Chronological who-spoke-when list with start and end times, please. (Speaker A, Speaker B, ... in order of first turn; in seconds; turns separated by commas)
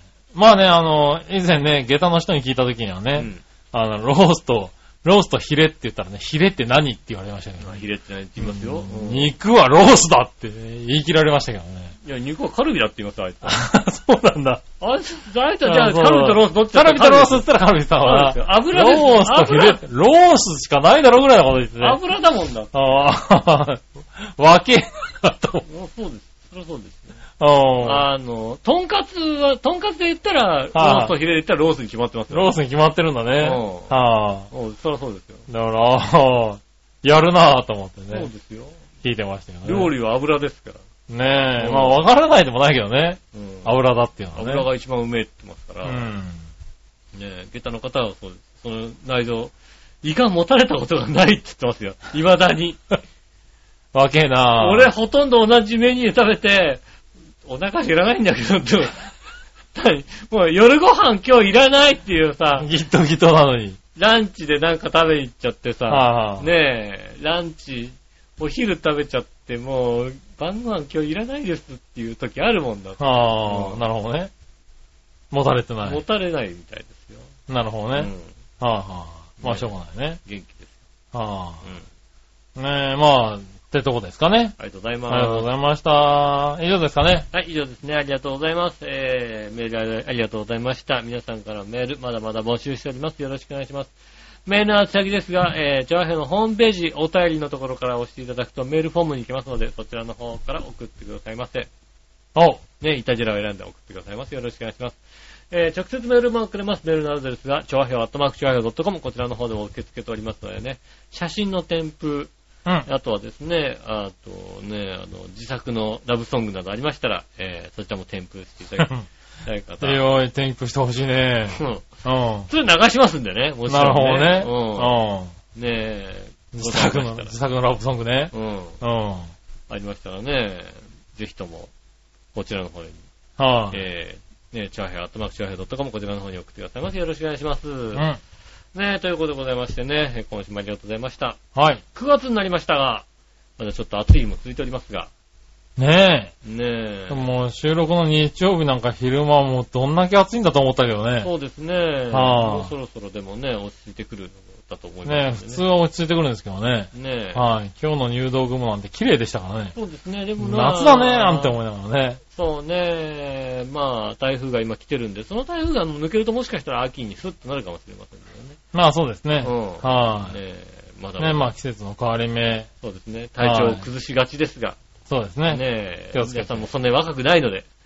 Speaker A: 0.3-7.8, Speaker B: 3.1-3.4, Speaker B: 7.6-9.3, Speaker A: 8.4-11.9, Speaker B: 12.0-13.6, Speaker A: 13.4-14.6, Speaker B: 14.8-17.4, Speaker A: 15.6-22.0, Speaker B: 18.0-19.8, Speaker B: 21.8-22.8, Speaker A: 22.7-25.6, Speaker B: 25.6-27.2, Speaker A: 27.4-28.1, Speaker B: 27.8-32.5, Speaker A: 30.7-31.1, Speaker A: 32.3-34.5, Speaker B: 33.4-34.0, Speaker B: 34.5-35.5, Speaker A: 35.5-38.3, Speaker B: 38.1-38.8, Speaker A: 39.0-39.9, Speaker B: 39.6-40.8, Speaker A: 41.1-44.6, Speaker B: 41.5-42.0, Speaker B: 43.3-43.7, Speaker B: 44.3-46.1, Speaker A: 45.8-46.5, Speaker B: 47.1-52.8, Speaker A: 53.9-54.9, Speaker B: 54.5-56.8, Speaker B: 57.4-59.0, Speaker B: 59.7-62.7, Speaker A: 62.6-63.8, Speaker B: 64.0-73.8, Speaker A: 65.9-66.5, Speaker A: 73.0-74.3, Speaker A: 75.3-76.0, Speaker B: 75.8-77.3, Speaker A: 77.5-80.2, Speaker B: 77.9-78.3, Speaker B: 79.4-80.8, Speaker A: 81.1-81.6, Speaker A: 82.5-84.5, Speaker B: 84.6-85.5, Speaker A: 85.1-87.3, Speaker B: 87.3-93.9, Speaker B: 94.5-101.7, Speaker A: 102.3-102.6, Speaker B: 102.8-105.0, Speaker B: 105.5-112.3, Speaker B: 112.8-118.9, Speaker A: 118.8-119.1, Speaker B: 119.4-120.0, Speaker A: 119.8-122.5, Speaker B: 121.5-121.9, Speaker B: 122.5-124.9, Speaker A: 123.7-125.3, Speaker B: 125.5-127.3, Speaker A: 126.5-129.3, Speaker B: 128.3-128.8, Speaker B: 129.7-131.7, Speaker B: 132.3-133.0, Speaker A: 133.4-133.8, Speaker B: 133.7-138.1, Speaker A: 137.9-138.2, Speaker B: 138.7-141.4, Speaker A: 141.5-141.8, Speaker B: 141.9-143.1, Speaker B: 143.6-145.1, Speaker A: 145.8-146.3, Speaker B: 146.4-147.3, Speaker A: 147.1-151.3, Speaker B: 151.2-155.6, Speaker A: 152.1-152.7, Speaker A: 155.1-159.7, Speaker B: 156.9-157.4, Speaker B: 159.7-161.6, Speaker A: 160.4-162.2, Speaker B: 162.3-168.6, Speaker A: 168.7-170.4, Speaker B: 169.4-171.5, Speaker A: 171.2-172.7, Speaker B: 172.8-174.8, Speaker A: 173.4-173.8, Speaker A: 175.1-176.7, Speaker B: 175.5-177.7